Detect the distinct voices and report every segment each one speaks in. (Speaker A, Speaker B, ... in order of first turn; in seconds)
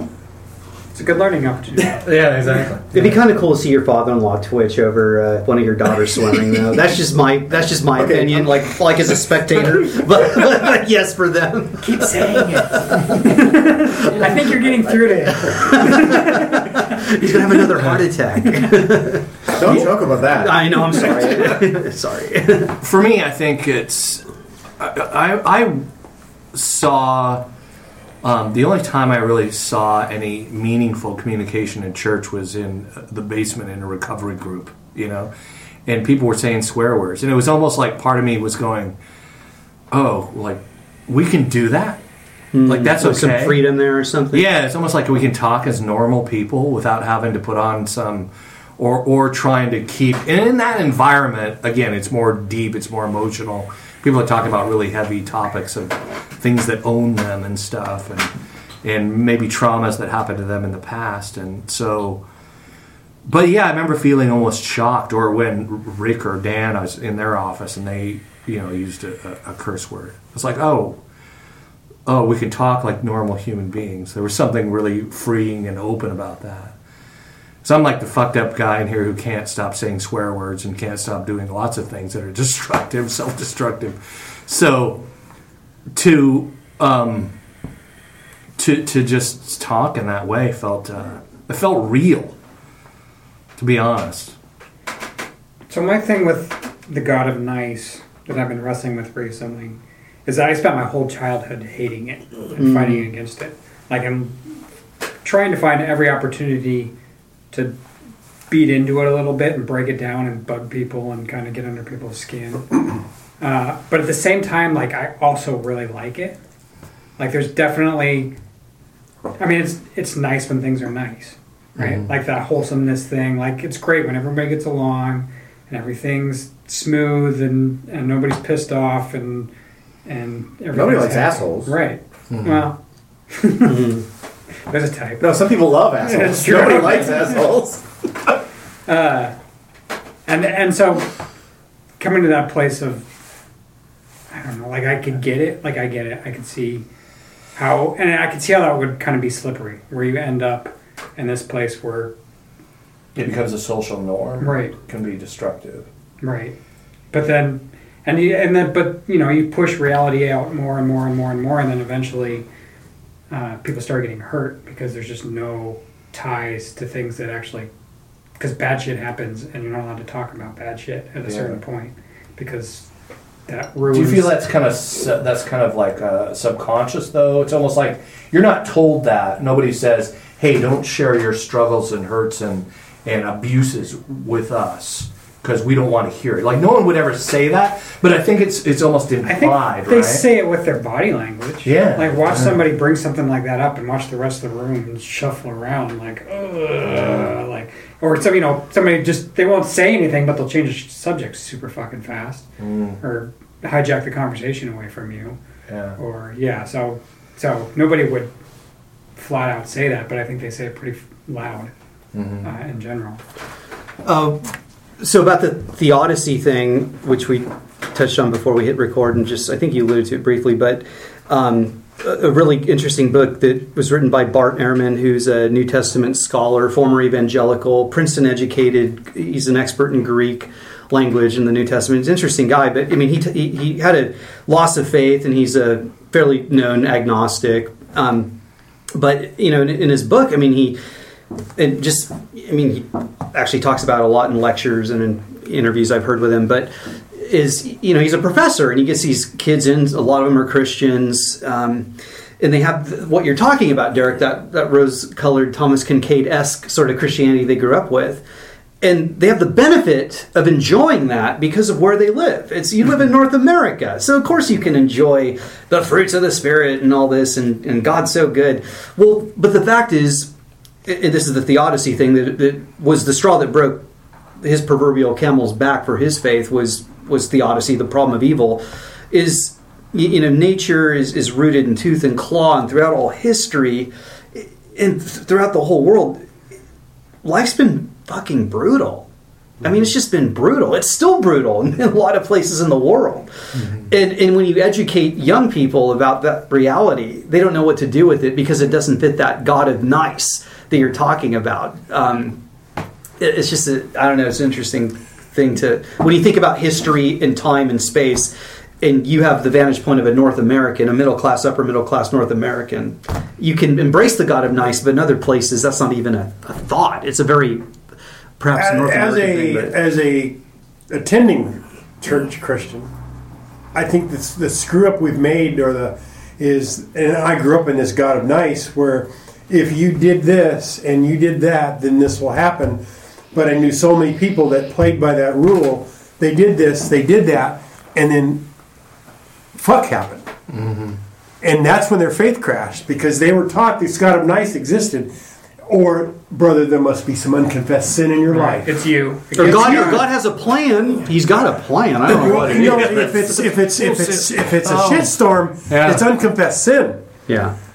Speaker A: 0.9-2.0, 11.8-16.9, 95.7-104.4, 105.2-106.9, 108.5-112.8, 113.4-116.4, 117.2-118.4, 119.4-129.5, 130.1-132.8, 133.3-133.9, 134.7-135.3, 136.0-137.5, 138.9-139.3, 140.3-141.1, 142.0-143.1, 144.3-146.8, 147.6-152.1, 154.4-154.8, 156.2-156.6, 157.1-162.5, 163.3-167.7, 168.4-172.9, 173.5-174.3, 189.2-202.5, 203.0-205.4, 206.0-208.3, 209.2-211.7, 212.4-213.2, 348.3-350.1
Speaker B: 1.9-3.1, 22.8-24.3, 24.8-25.9, 26.5-27.5, 28.2-35.3, 35.9-39.0, 39.9-42.0, 42.7-43.6, 44.3-62.2, 63.3-71.0, 72.1-76.8, 77.6-85.1, 86.0-87.3, 88.6-92.4, 93.6-94.4, 121.8-122.1, 132.3-132.7, 153.2-155.9, 171.3-171.5, 173.9-190.2, 191.6-192.6, 196.9-197.3, 202.6-203.0, 205.7-206.0, 212.1-212.5, 293.6-293.9, 340.5-341.0, 352.1-355.1, 355.7-356.1
Speaker C: 2.9-13.2, 15.4-22.8, 42.5-44.5, 102.6-103.1, 133.7-134.1, 214.0-238.3, 238.9-240.8, 241.6-258.2, 258.8-270.3, 270.9-273.9, 274.4-286.2, 287.2-289.1, 289.6-293.3, 293.9-302.4, 303.2-317.6, 318.4-319.8, 349.4-353.5, 357.3-357.6
Speaker D: 8.0-8.8, 19.5-21.6, 130.7-131.7, 135.2-137.9
Speaker E: 318.6-320.4, 320.9-322.9, 323.7-338.5, 339.6-340.3, 341.4-345.1, 345.7-348.8, 349.4-350.0, 352.1-357.0